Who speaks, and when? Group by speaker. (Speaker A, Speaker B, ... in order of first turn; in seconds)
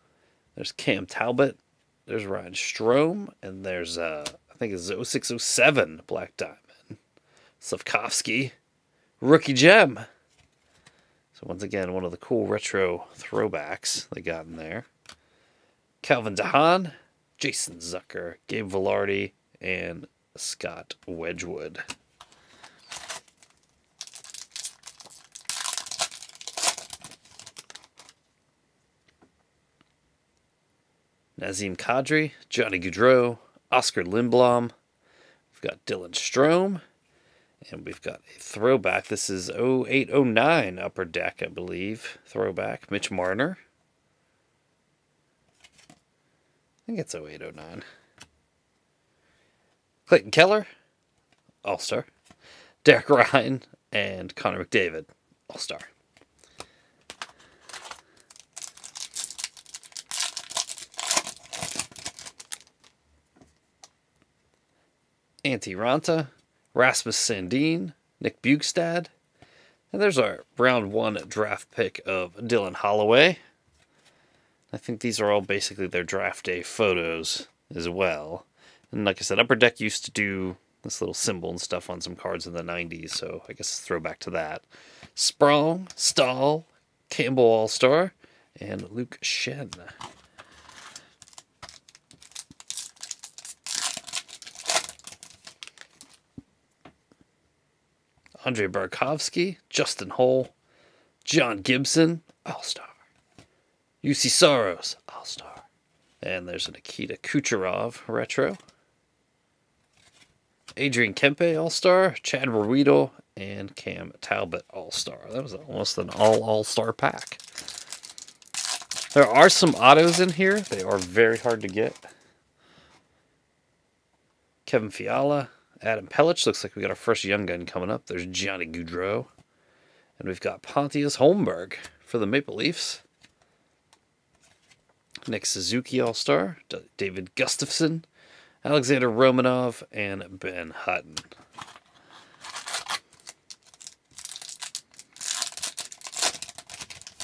Speaker A: 0.5-7.0, 7.6-8.5, 9.2-10.0, 11.3-14.9, 16.0-21.8, 31.4-34.7, 35.5-36.8, 37.6-43.6, 46.9-47.8, 50.1-50.7, 51.6-52.1, 52.8-55.9, 65.4-69.1, 69.9-73.4, 74.7-84.6, 85.2-89.9, 98.4-100.5, 101.2-103.0, 104.0-105.7, 106.2-108.6, 110.8-117.4, 119.1-122.0, 124.6-129.3, 130.2-133.0, 135.2-138.1, 138.6-141.3